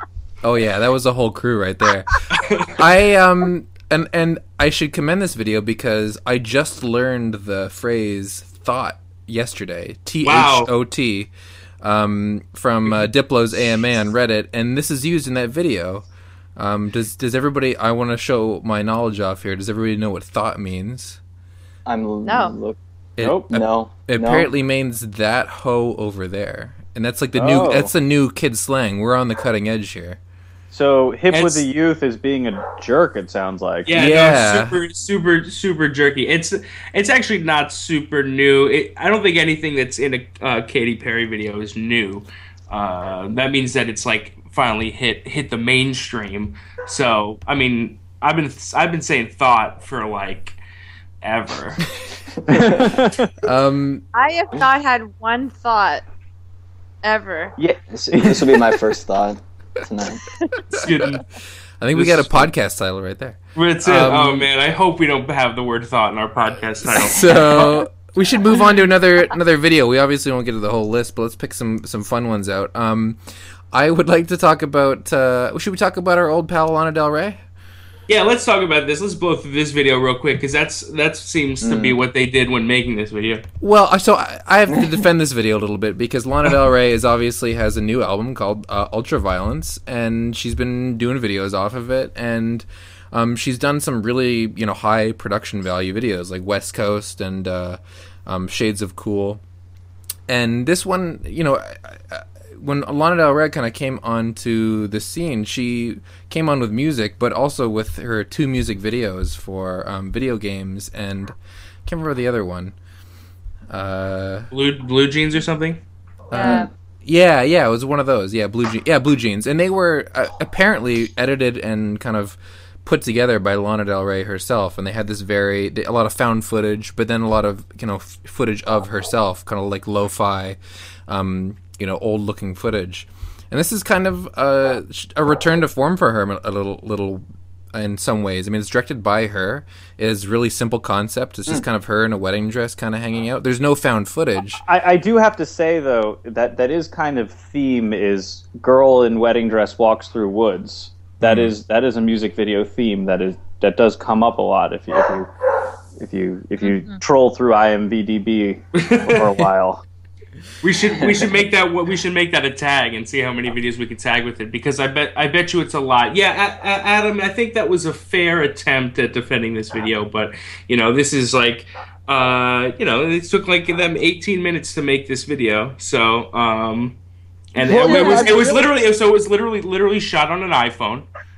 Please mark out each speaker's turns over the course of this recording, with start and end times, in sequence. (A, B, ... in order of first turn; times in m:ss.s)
0:00.4-0:11.3 A
0:02.3-0:02.7 B
0:10.2-0:10.7 B
0:11.8-0:21.2 A
0:21.9-0:22.8 C
0:22.2-0:22.6 D
0:23.2-0:30.2 A
0:23.2-0:23.5 E
0:23.5-0:24.5 C
0:27.4-0:27.9 E
0:30.7-0:34.0 E
0:31.3-0:31.6 B
0:33.9-0:50.6 B
0:33.9-0:34.8 A
0:51.2-0:51.8 B
0:52.5-0:53.3 E
0:52.5-0:52.9 C
0:53.4-0:54.0 A
0:54.1-0:56.1 D
0:57.0-0:57.6 D
0:57.6-0:58.8 E
0:57.9-1:00.3 C
1:00.7-1:01.2 B
1:01.8-1:04.5 A
1:01.9-1:02.5 B
1:03.6-1:07.7 B
1:06.9-1:13.2 A
1:13.7-1:17.4 A
1:18.1-1:23.4 B
1:21.6-1:22.0 C
1:23.6-1:39.4 A
1:40.3-1:51.4 A
1:51.9-1:52.8 A
1:53.7-1:54.5 A
1:54.5-1:55.8 B
1:56.3-2:10.6 A
1:56.3-1:56.7 D
1:56.4-1:56.7 C
2:11.1-2:24.6 A
2:24.6-2:35.3 E
2:31.2-2:31.5 A
2:36.0-2:39.8 E
2:36.6-2:37.0 D
2:38.8-2:39.5 B
2:40.6-2:57.0 B
2:57.5-3:01.1 B
2:57.6-2:58.6 E
2:57.9-2:58.5 D